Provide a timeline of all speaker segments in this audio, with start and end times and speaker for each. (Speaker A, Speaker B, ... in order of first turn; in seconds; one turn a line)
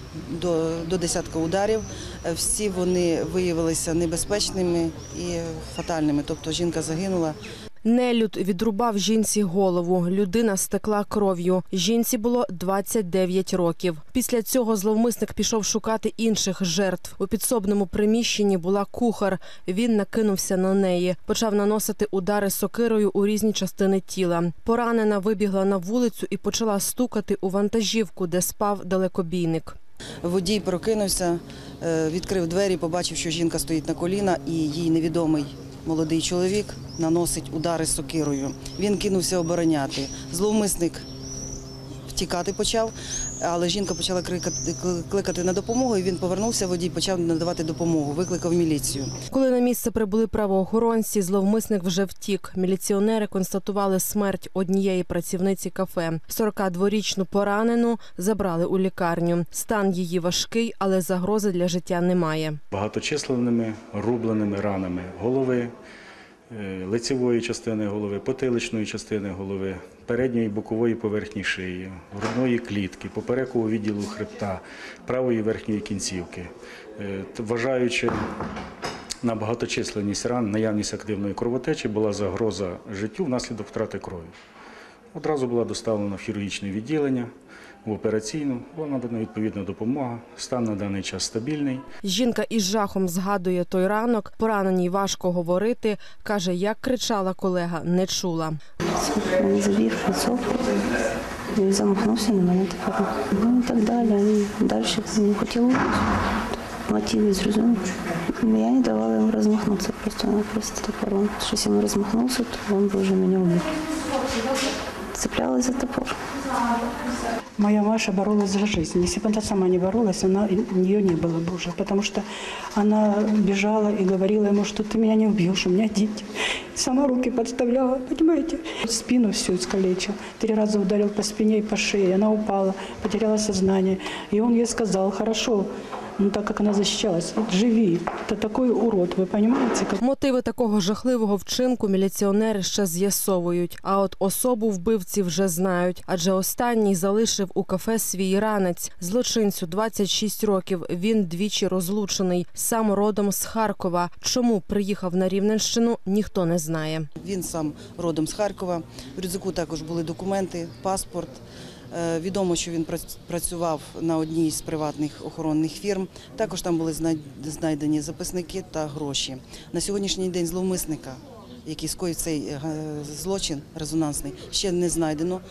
Speaker A: 0.3-7.4
Speaker B: 7.8-29.8
Speaker A: 30.2-41.1
Speaker A: 42.1-49.1
Speaker B: 49.3-62.6
Speaker C: 62.7-65.7
Speaker C: 66.5-78.2
Speaker C: 79.2-84.3
Speaker C: 85.1-87.3
Speaker C: 87.8-91.8
Speaker B: 92.0-98.6
Speaker D: 99.0-100.8
Speaker D: 101.5-106.1
Speaker D: 106.7-114.0
Speaker D: 115.1-116.2
Speaker E: 117.6-140.0
Speaker B: 140.0-157.1
Speaker A: 157.2-175.4